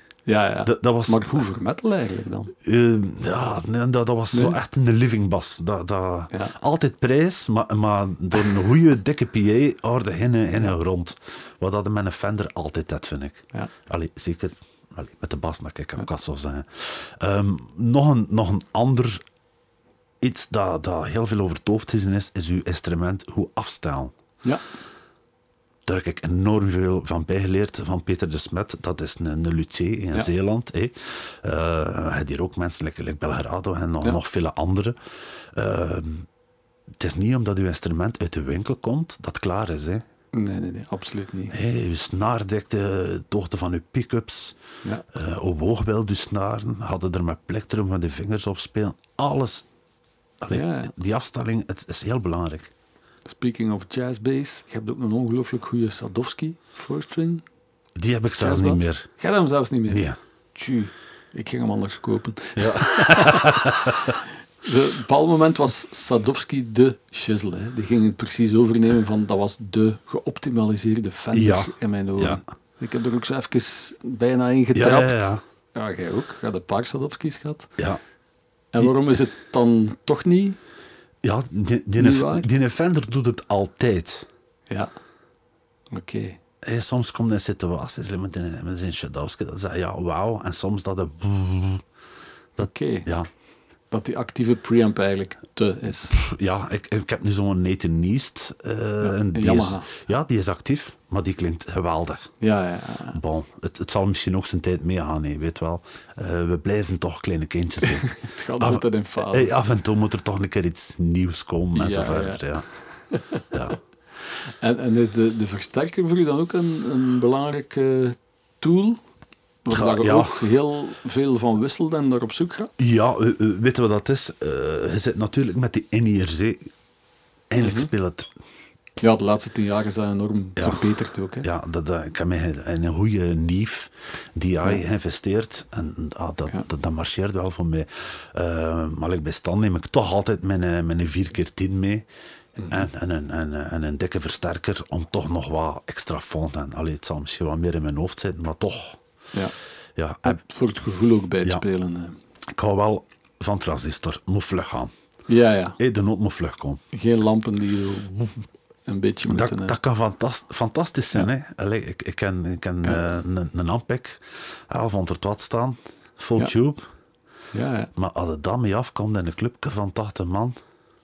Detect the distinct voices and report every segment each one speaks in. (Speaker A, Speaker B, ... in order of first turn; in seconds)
Speaker A: 0.3-2.5, 4.3-4.6, 40.3-41.5, 50.5-50.9, 53.3-57.4, 58.4-60.0, 60.5-64.1, 64.6-77.7, 78.7-80.6, 82.0-82.5, 85.9-86.4, 92.6-93.1, 93.9-96.2, 99.0-99.9, 102.4-103.2, 107.8-109.6, 111.7-112.5, 113.1-113.4, 114.6-119.0, 119.6-122.7, 127.6-127.9, 129.0-131.5, 142.6-142.8, 150.2-152.2, 155.3-155.8, 156.9-159.7, 167.5-167.9
Speaker B: 0.6-1.4, 2.6-19.2, 20.2-24.1, 25.9-35.0, 35.5-36.3, 37.0-40.0, 41.5-44.6, 45.1-49.7, 50.4-52.7, 58.0-59.1, 59.9-60.2, 62.5-64.2, 71.3-72.4, 74.7-75.4, 81.2-84.2, 86.6-91.8, 92.6-93.3, 96.1-102.3, 103.1-108.0, 108.6-112.7, 113.5-113.8, 119.7-120.4, 122.8-126.7, 127.5-128.3, 131.4-142.0, 142.7-149.0, 149.9-150.4, 152.5-154.9, 155.8-156.8, 159.3-166.8, 167.9-170.6